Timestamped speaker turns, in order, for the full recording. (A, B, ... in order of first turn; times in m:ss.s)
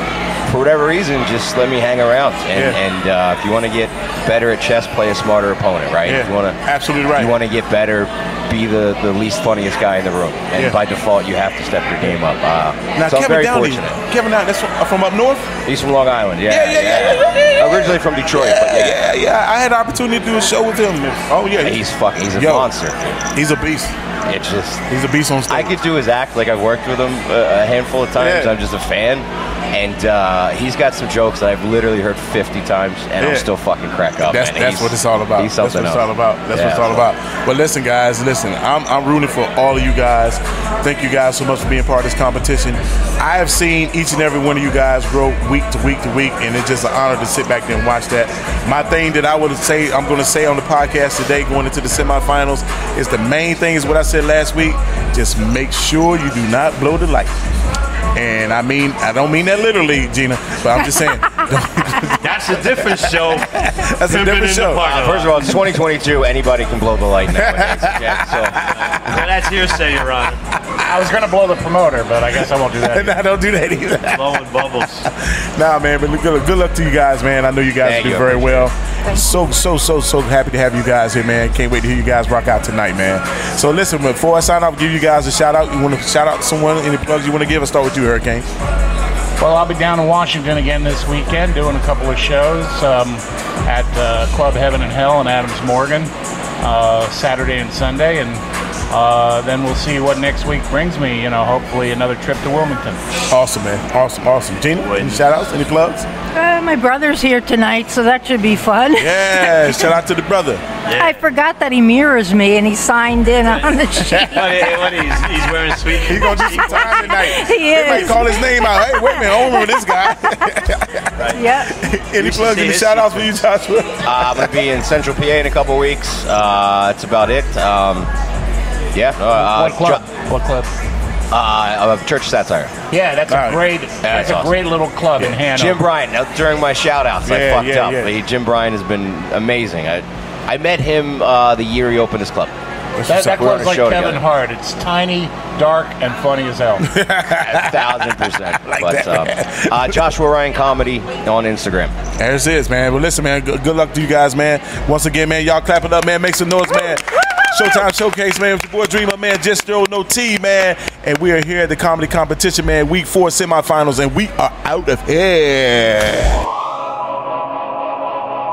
0:00.4-0:14.0 A
0:02.5-0:02.8 B
0:06.0-0:07.3 B
0:12.9-0:15.5 B
0:15.6-0:19.0 A
0:16.5-0:21.8 B
0:21.6-0:23.0 A
0:22.4-0:22.7 B
0:23.3-0:23.9 B
0:24.3-0:24.8 A
0:24.9-0:25.8 B
0:25.5-0:37.1 A
0:28.2-0:28.5 B
0:33.2-0:33.5 B
0:34.3-0:57.3 B
0:58.2-1:02.2 B
1:02.2-1:05.6 C
1:03.6-1:04.8 B
1:04.8-1:09.2 A
1:07.4-1:09.1 B
1:09.1-1:10.4 C
1:10.8-1:13.2 D
1:12.9-1:14.1 B
1:14.0-1:15.1 C
1:15.2-1:28.4 B
1:17.8-1:18.7 A
1:29.4-1:43.0 D
1:43.3-1:46.0 B
1:44.8-1:45.3 C
1:46.3-1:49.9 E
1:49.0-1:50.6 B
1:50.8-1:51.2 C
1:50.9-1:54.5 E
1:53.4-1:57.1 C
1:54.1-1:54.8 B
1:56.1-2:01.0 B
1:56.7-1:59.9 E
2:01.3-2:01.7 E
2:01.7-2:04.4 B
2:02.2-2:03.3 C
2:04.0-2:08.1 A
2:08.9-2:10.0 A
2:09.3-2:10.7 D
2:11.3-2:12.7 A
2:12.9-2:15.8 D
2:14.0-2:14.6 A
2:15.4-2:22.5 A
2:17.2-2:18.1 B
2:23.1-2:23.4 B
2:23.1-2:26.9 D
2:23.2-2:24.2 A
2:26.9-2:29.7 B
2:27.4-2:32.0 A
2:32.2-2:46.4 B